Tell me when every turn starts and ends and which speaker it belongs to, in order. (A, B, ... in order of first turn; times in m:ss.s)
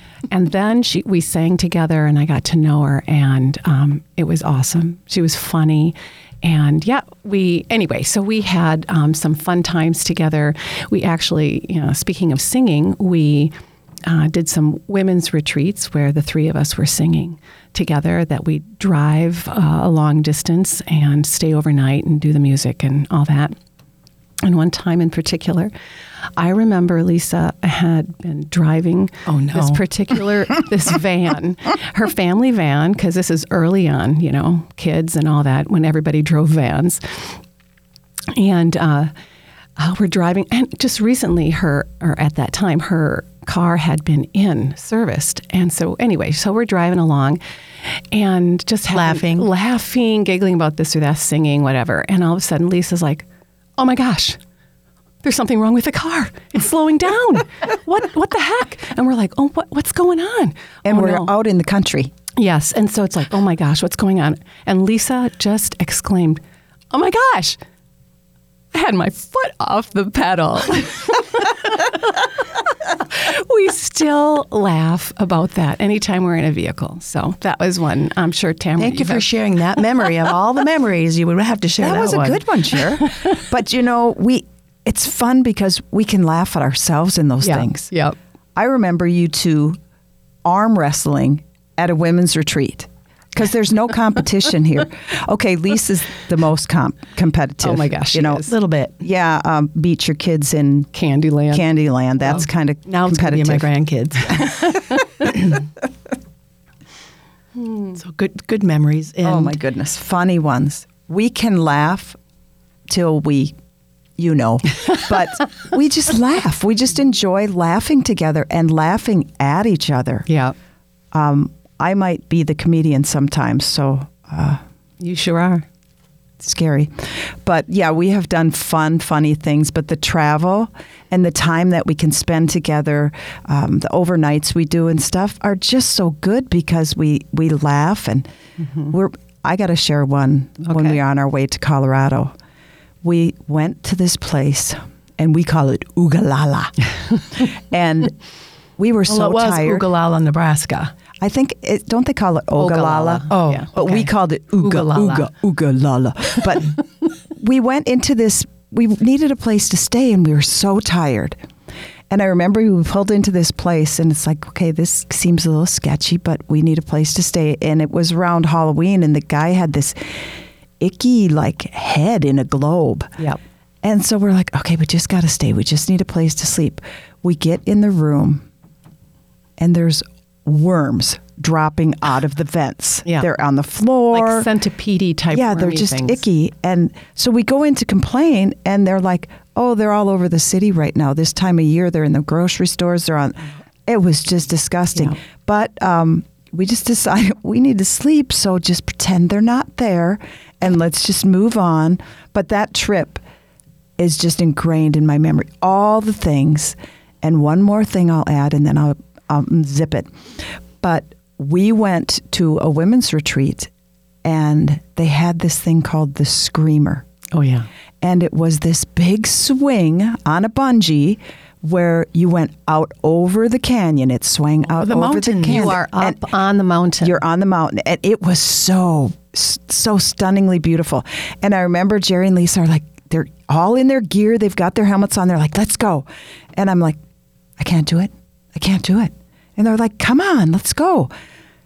0:00.3-0:23.6 A
0:24.4-0:25.7 A
0:26.4-0:37.4 A
0:29.3-0:29.8 B
0:38.3-0:39.1 A
0:39.8-0:53.3 A
0:48.9-0:49.5 B
0:53.8-0:54.4 A
0:55.2-1:01.3 A
1:00.8-1:02.1 C
1:02.4-1:07.6 A
1:08.7-1:12.3 A
1:12.9-1:19.3 A
1:18.8-1:22.4 B
1:21.8-1:27.9 C
1:27.4-1:28.2 A
1:28.6-1:29.8 C
1:30.4-1:38.5 C
1:37.6-1:38.5 A
1:38.4-1:39.0 B
1:39.0-1:40.9 C
1:40.9-1:41.7 A
1:41.5-1:43.7 C
1:42.9-1:45.5 B
1:44.4-1:44.7 C
1:47.6-1:48.0 A
1:48.0-1:49.6 B
1:49.2-1:52.2 C
1:52.9-1:53.6 C
1:54.2-2:00.3 C
2:00.3-2:00.6 A
2:01.1-2:04.6 C
2:05.0-2:05.6 A
2:06.4-2:18.3 C
2:18.6-2:18.9 A
2:18.9-2:22.4 C
2:20.6-2:21.0 A
2:23.0-2:28.2 C
2:28.8-2:29.9 C
2:29.1-2:30.9 B
2:31.2-2:41.4 C
2:32.6-2:34.1 A
2:33.3-2:35.3 B
2:42.1-2:53.2 C
2:53.8-2:58.5 C
2:59.6-3:04.5 C
3:04.1-3:06.2 A
3:05.3-3:23.2 C
3:24.0-3:33.7 C
3:34.2-3:37.1 C
3:37.3-3:37.7 A
3:38.0-3:46.2 C
3:44.8-3:45.8 B
3:45.5-3:47.2 A
3:47.0-3:57.0 C
3:57.6-4:01.1 C